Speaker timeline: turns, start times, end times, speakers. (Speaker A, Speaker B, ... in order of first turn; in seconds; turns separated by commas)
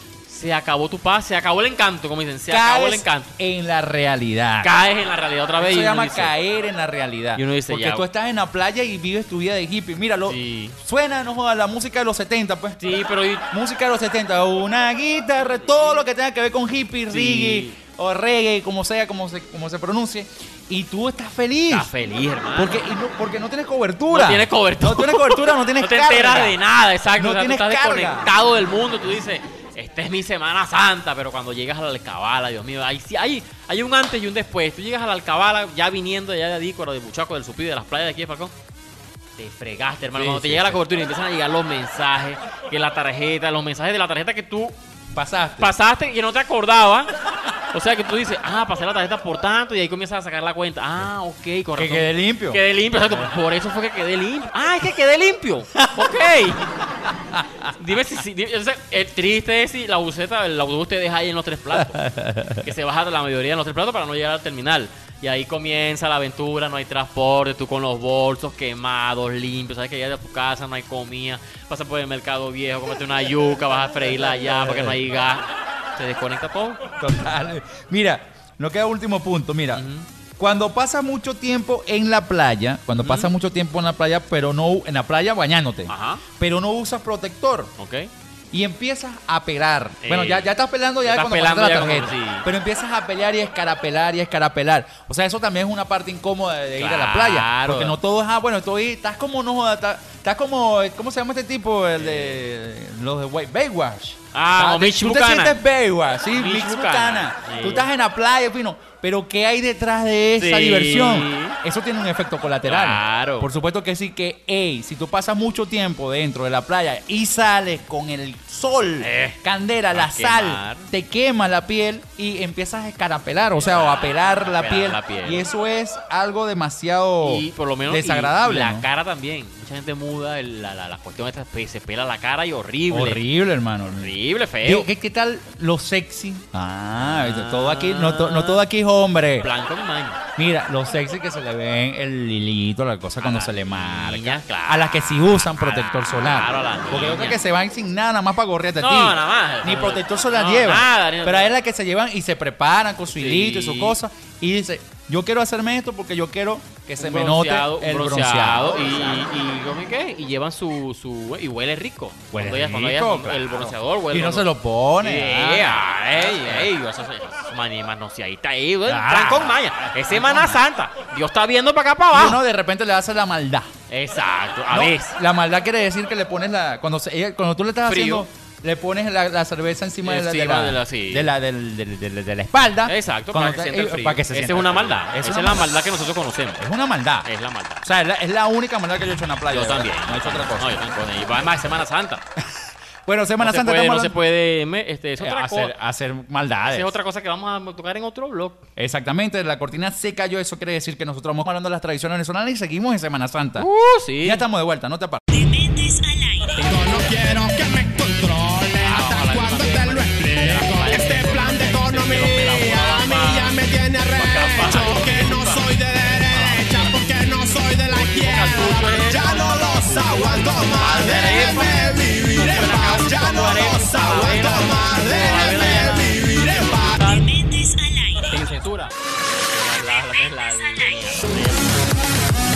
Speaker A: 0.3-3.4, Speaker B: 2.5-4.8, Speaker A: 4.6-6.3, Speaker B: 5.6-12.8, Speaker A: 7.3-8.1, Speaker A: 10.3-10.8, Speaker A: 12.8-13.5, Speaker B: 13.5-21.9, Speaker A: 15.6-15.8, Speaker A: 17.1-17.8, Speaker A: 21.7-22.8, Speaker B: 22.6-26.6, Speaker A: 24.1-38.5, Speaker B: 27.1-28.3, Speaker A: 39.4-44.8, Speaker B: 40.1-40.8, Speaker B: 45.1-45.7, Speaker A: 45.6-47.1, Speaker A: 47.7-56.7, Speaker B: 51.8-53.3, Speaker B: 55.8-56.1, Speaker B: 57.1-57.7, Speaker A: 57.8-62.0, Speaker B: 61.7-62.7, Speaker A: 62.6-76.8, Speaker B: 74.1-75.1, Speaker B: 77.0-79.8, Speaker A: 79.7-80.1, Speaker B: 80.4-87.7, Speaker A: 83.0-83.3, Speaker A: 85.9-86.2, Speaker A: 87.8-88.1, Speaker B: 88.5-128.9, Speaker A: 90.0-90.5, Speaker A: 91.0-92.5, Speaker A: 96.8-98.0, Speaker A: 102.0-102.4, Speaker A: 104.3-105.6, Speaker A: 106.3-107.9, Speaker A: 110.4-111.6, Speaker A: 112.7-113.5, Speaker A: 119.0-119.4, Speaker A: 119.9-120.9, Speaker A: 123.6-125.5, Speaker A: 127.2-133.2, Speaker B: 132.9-139.5, Speaker A: 134.0-134.9, Speaker A: 137.0-138.6, Speaker A: 139.4-140.2, Speaker B: 140.4-159.2, Speaker A: 143.2-147.4, Speaker A: 148.8-151.5, Speaker A: 153.1-154.0, Speaker A: 157.0-164.5, Speaker B: 162.3-166.7, Speaker A: 165.0-172.4, Speaker B: 168.9-170.6, Speaker B: 172.1-173.7, Speaker A: 173.9-175.2, Speaker B: 174.7-185.7, Speaker A: 177.8-178.3, Speaker A: 180.0-181.3, Speaker A: 182.9-186.6, Speaker B: 186.6-187.3, Speaker A: 187.2-187.8, Speaker B: 187.8-190.8, Speaker A: 189.5-192.2, Speaker B: 192.4-194.2, Speaker A: 193.4-195.7, Speaker B: 195.2-196.9, Speaker A: 196.7-198.7, Speaker B: 198.8-203.7, Speaker A: 203.6-204.4, Speaker B: 204.2-205.2, Speaker C: 205.3-206.7, Speaker A: 206.6-207.1, Speaker D: 206.6-227.2, Speaker A: 208.8-213.6, Speaker A: 214.1-217.0, Speaker A: 217.9-227.2, Speaker C: 226.8-228.4, Speaker A: 228.3-231.8, Speaker C: 229.8-231.3